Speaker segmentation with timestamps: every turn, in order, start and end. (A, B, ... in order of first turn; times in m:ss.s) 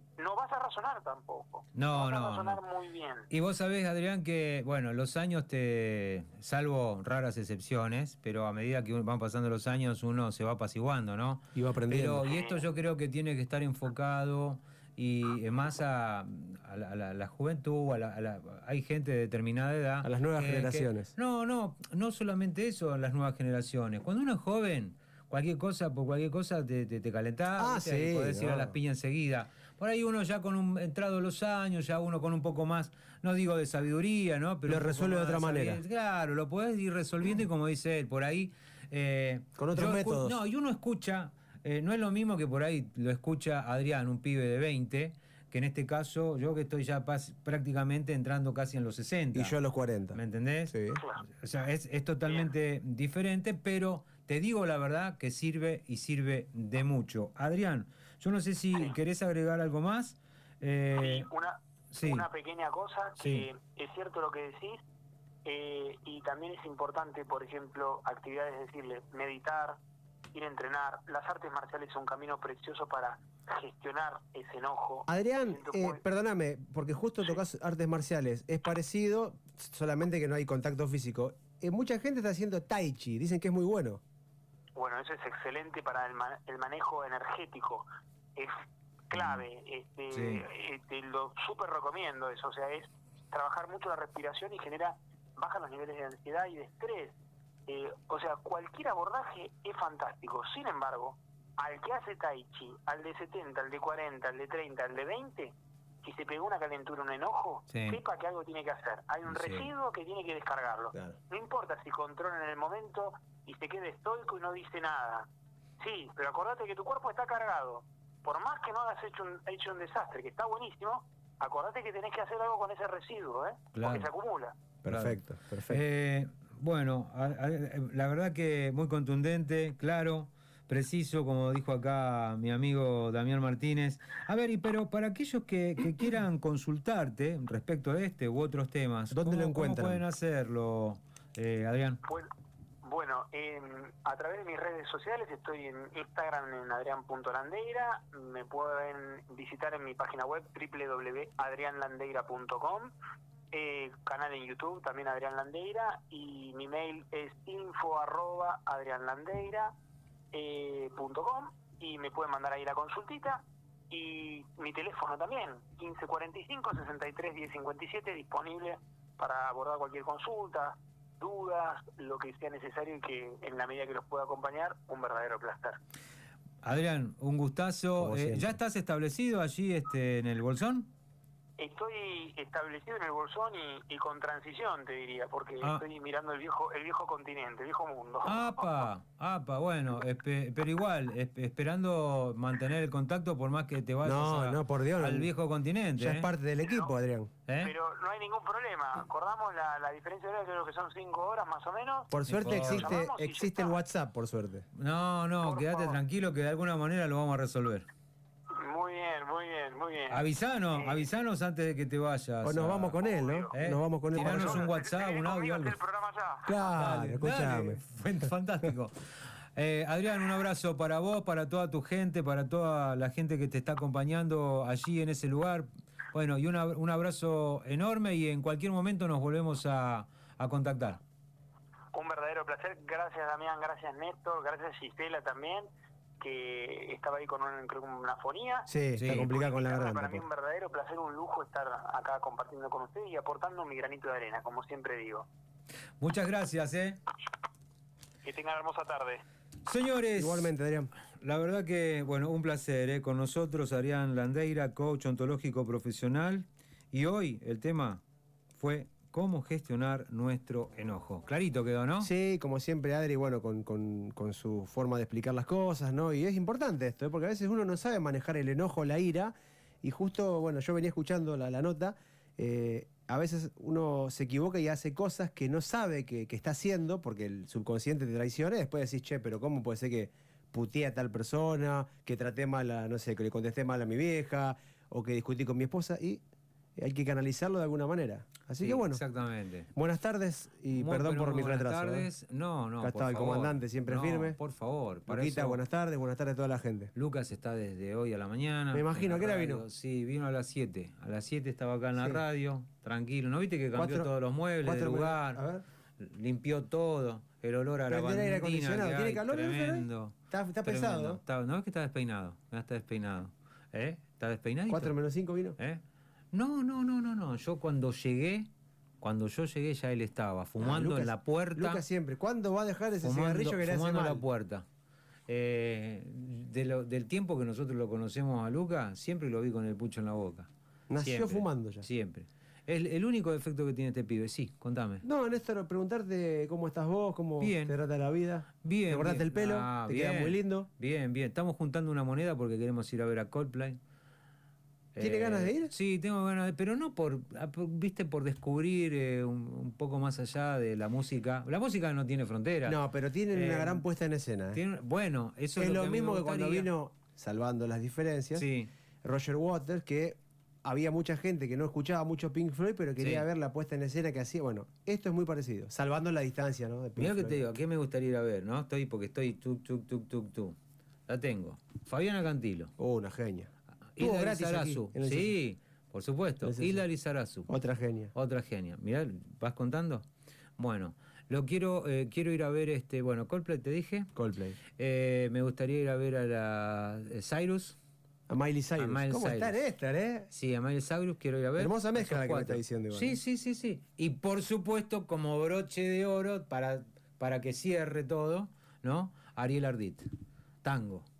0:00.2-0:03.3 A
0:01.7-0:02.6 B
0:03.3-0:49.6 B
0:11.5-0:12.3 C
0:12.2-0:12.6 A
0:20.0-0:21.1 C
0:27.6-0:28.8 C
0:34.7-0:35.8 C
0:39.6-0:40.4 C
0:49.3-0:51.0 C
0:50.1-1:01.3 B
0:50.9-0:51.2 A
1:01.0-1:04.8 A
1:01.9-1:02.3 B
1:03.2-1:03.4 B
1:05.4-1:09.8 A
1:10.3-1:16.0 A
1:15.1-1:24.0 C
1:24.8-1:55.3 A
1:29.1-1:29.4 B
1:30.1-1:30.4 B
1:47.7-1:48.0 B
1:49.3-1:49.7 B
1:55.8-2:04.6 A
2:03.7-2:04.1 B
2:04.8-2:05.8 C
2:04.9-2:22.0 B
2:19.1-2:20.0 C
2:22.0-2:22.3 A
2:22.8-2:32.9 A
2:33.5-2:39.7 A
2:40.3-2:55.8 A
2:56.6-3:00.9 B
2:58.0-2:58.5 C
3:01.6-3:08.8 A
3:08.2-3:16.3 B
3:14.0-3:15.3 C
3:16.0-3:17.3 C
3:16.6-3:16.9 A
3:17.5-3:17.7 B
3:17.6-3:23.8 A
3:22.1-3:24.7 C
3:22.3-3:23.0 B
3:24.7-3:27.9 B
3:25.4-3:26.0 A
3:28.5-3:30.2 A
3:30.1-3:33.0 B
3:30.7-3:31.1 A
3:32.4-3:34.7 C
3:33.0-3:33.5 A
3:33.5-3:35.8 B
3:34.1-3:36.6 A
3:36.4-3:38.3 C
3:36.7-3:51.0 B
3:51.9-3:55.7 A
3:56.2-4:05.3 A
3:58.7-4:00.2 C
3:59.0-3:59.3 B
4:06.0-4:07.0 B
4:08.2-4:09.2 A
4:09.6-4:10.5 B
4:10.2-4:10.9 C
4:11.1-4:18.0 B
4:18.6-4:22.1 B
4:22.0-4:46.2 C
4:46.8-4:49.0 C
4:48.6-4:49.7 B
4:49.7-4:52.1 C
4:50.7-4:55.6 B
4:52.8-4:54.4 C
4:55.1-4:56.9 C
4:56.9-5:05.4 B
4:58.7-4:59.6 C
5:02.0-5:02.2 C
5:03.7-5:04.1 C
5:04.6-5:05.6 C
5:06.0-5:14.9 B
5:07.9-5:11.2 C
5:14.7-5:15.6 C
5:16.3-5:18.5 B
5:19.0-5:21.8 B
5:20.6-5:24.2 C
5:23.0-5:24.6 B
5:25.3-5:35.0 B
5:30.9-5:31.9 C
5:35.0-5:40.7 C
5:37.4-5:37.8 B
5:38.6-5:43.8 B
5:44.9-5:52.8 B
5:45.0-5:45.7 C
5:52.6-5:54.6 C
5:53.3-5:53.8 B
5:54.5-5:56.7 B
5:55.6-5:58.5 C
5:58.3-5:58.7 B
5:59.0-6:07.4 C
6:03.0-6:03.3 B
6:07.0-6:10.6 B
6:11.1-6:12.7 B
6:12.8-6:15.3 C
6:14.0-6:17.5 B
6:16.4-6:16.8 C
6:17.5-6:18.1 C
6:18.1-6:20.0 B
6:20.6-6:24.1 B
6:24.1-6:24.6 C
6:24.8-6:27.8 B
6:28.3-6:30.3 C
6:28.8-6:29.6 B
6:30.3-6:40.1 B
6:31.6-6:33.2 C
6:40.6-6:41.0 B